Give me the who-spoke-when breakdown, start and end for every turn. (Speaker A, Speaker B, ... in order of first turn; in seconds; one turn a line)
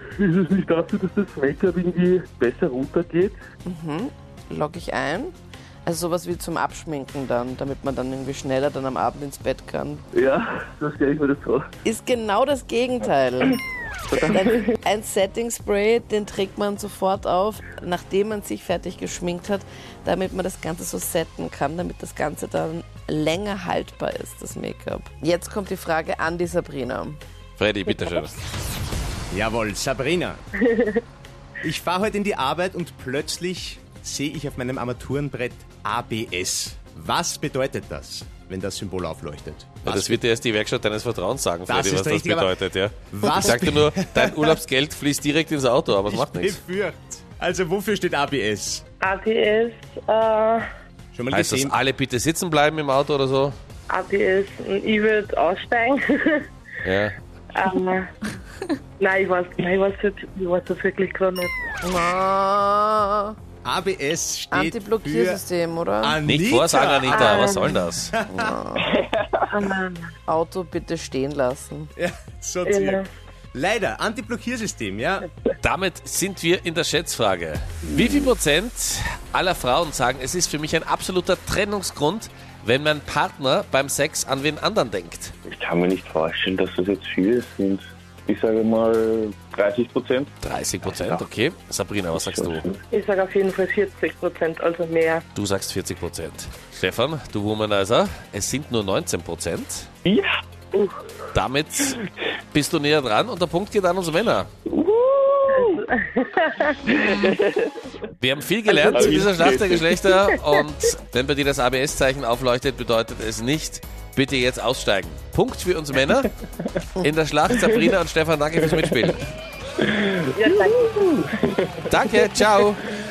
Speaker A: 0.2-3.4
Speaker B: 3.6-10.0
Speaker A: 10.1-11.7
Speaker B: 11.8-13.6
Speaker A: 14.1-14.6
Speaker B: 14.2-27.2
Speaker C: 27.6-28.3
Speaker D: 29.3-30.4
Speaker D: 31.6-40.2
Speaker C: 39.8-46.6
Speaker D: 41.7-42.6
Speaker D: 43.1-44.6
Speaker D: 46.1-48.8
Speaker E: 49.0-50.7
Speaker D: 51.1-51.8
Speaker C: 51.3-53.5
Speaker E: 53.9-56.5
Speaker C: 56.8-57.2
Speaker E: 57.5-58.1
Speaker E: 59.0-61.5
Speaker B: 61.8-63.3
Speaker D: 63.6-65.4
Speaker B: 64.5-66.2
Speaker D: 66.0-68.5
Speaker C: 66.2-68.1
Speaker B: 68.3-68.9
Speaker A: 68.8-69.4
Speaker E: 69.5-70.1
Speaker B: 70.2-71.9
Speaker D: 72.0-73.0
Speaker E: 72.7-73.1
Speaker D: 73.5-75.3
Speaker C: 75.6-85.3
Speaker A: 85.5-90.3
Speaker C: 90.4-92.6
Speaker A: 90.8-91.2
Speaker A: 92.1-92.8
Speaker E: 92.9-95.2
Speaker C: 95.3-99.8
Speaker A: 100.0-100.3
Speaker E: 100.7-101.0
Speaker C: 101.3-104.5
Speaker A: 104.7-105.8
Speaker E: 105.5-106.8
Speaker A: 106.9-107.9
Speaker C: 108.2-116.3
Speaker A: 108.7-109.9
Speaker C: 117.0-119.3
Speaker A: 119.8-121.7
Speaker E: 120.3-120.9
Speaker C: 121.9-122.8